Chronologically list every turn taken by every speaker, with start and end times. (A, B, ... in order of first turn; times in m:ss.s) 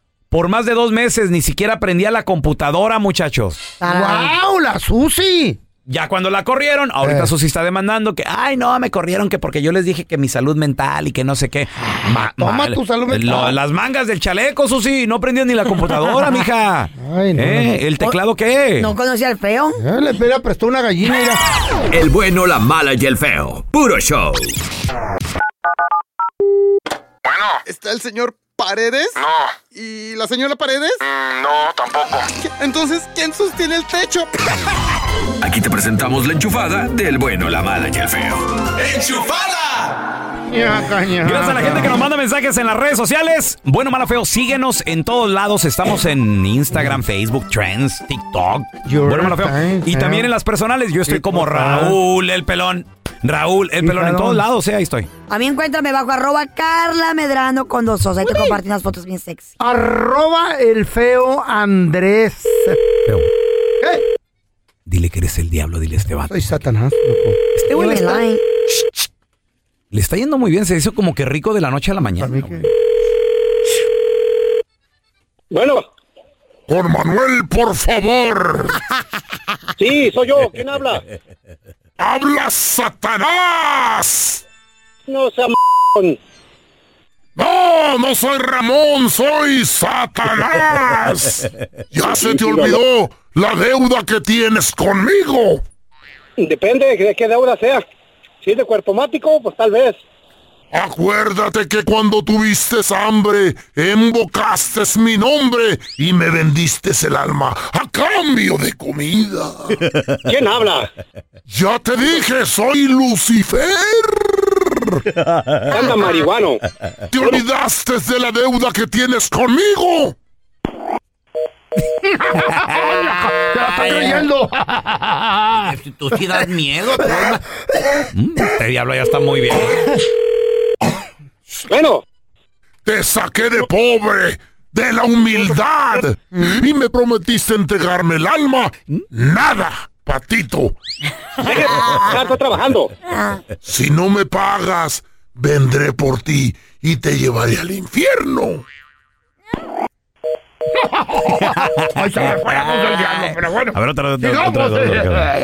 0:00.3-0:03.8 A
0:03.8-0:04.3 B
0:03.8-0:05.6 C
0:05.9-0:18.9 A
0:07.0-0:07.3 C
0:12.3-0:13.6 C
0:17.0-0:17.7 C
0:18.8-0:19.8 B
0:19.8-0:21.4 C
0:21.9-0:24.5 D
0:27.7-0:29.2 E
0:29.7-0:31.0 E
0:32.6-0:34.3 E
0:35.4-0:38.5 D
0:39.0-0:39.3 D
0:40.5-0:42.0 C
0:41.2-0:55.1 A
0:48.9-0:50.3 C
0:51.1-0:52.0 C
0:53.8-0:54.4 C
0:55.3-0:59.5 B
0:59.6-1:02.8 C
1:04.9-1:06.6 A
1:06.3-1:07.4 C
1:07.6-1:08.2 A
1:07.7-1:08.4 B
1:09.9-1:12.7 A
1:12.2-1:12.7 C
1:15.5-1:15.8 F
1:16.7-1:18.8 G
1:19.8-1:21.0 F
1:22.0-1:24.4 G
1:25.1-1:26.2 F
1:27.4-1:35.6 G
1:32.1-1:32.8 F
1:36.4-1:37.8 F
1:38.4-1:40.0 F
1:40.7-1:49.8 G
1:50.2-1:50.9 F
1:51.5-1:55.0 G
1:55.7-1:56.6 F
1:57.1-2:00.2 G
2:02.0-2:05.7 C
2:05.5-2:07.4 A
2:08.1-2:10.0 A
2:11.7-2:12.0 F
2:12.8-2:20.8 G
2:16.4-2:16.6 B
2:21.4-2:22.9 F
2:23.2-2:23.4 B
2:23.6-2:28.6 G
2:31.4-2:35.3 A
2:32.0-2:33.7 C
2:34.3-2:34.8 G